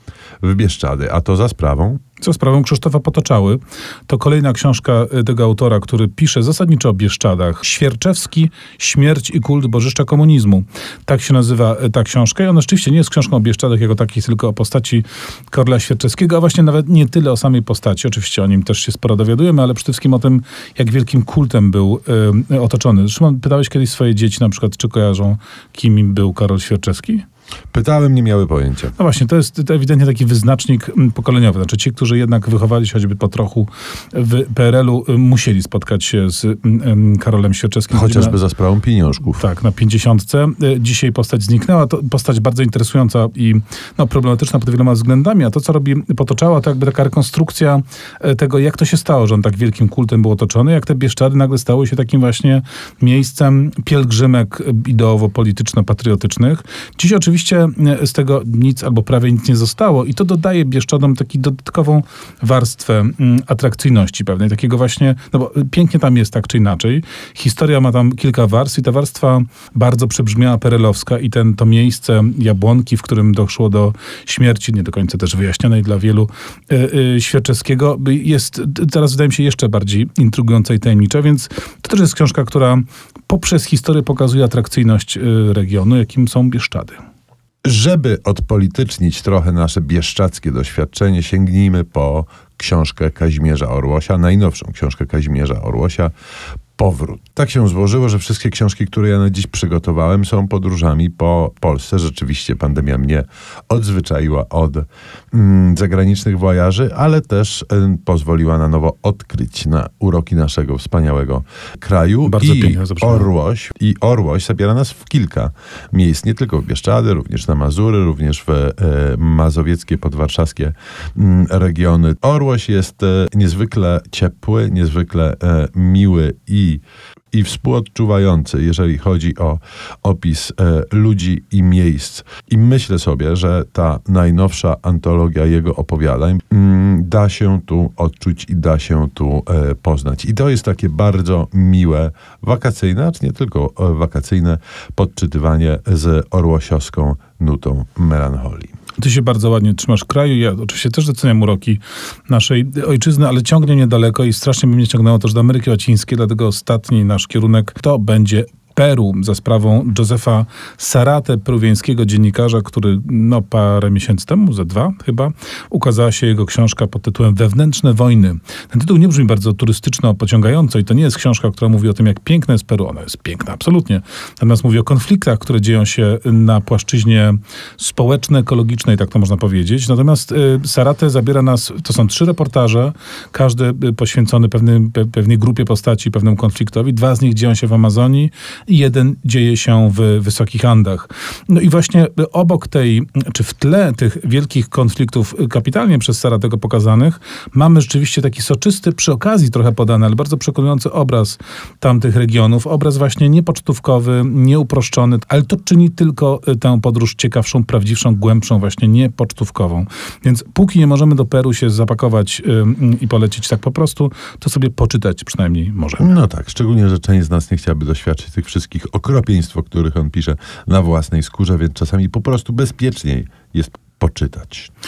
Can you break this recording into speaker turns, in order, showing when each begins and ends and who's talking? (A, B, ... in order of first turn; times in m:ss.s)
0:00.4-0:02.0 A
0:02.2-0:27.2 B
0:27.7-0:28.9 A
0:29.0-0:38.4 B
0:37.9-0:39.4 A
0:39.4-1:27.0 B
1:27.6-1:36.1 A
1:36.8-2:28.7 A
1:52.2-1:53.3 B
2:29.0-3:36.1 B
3:36.0-3:44.7 A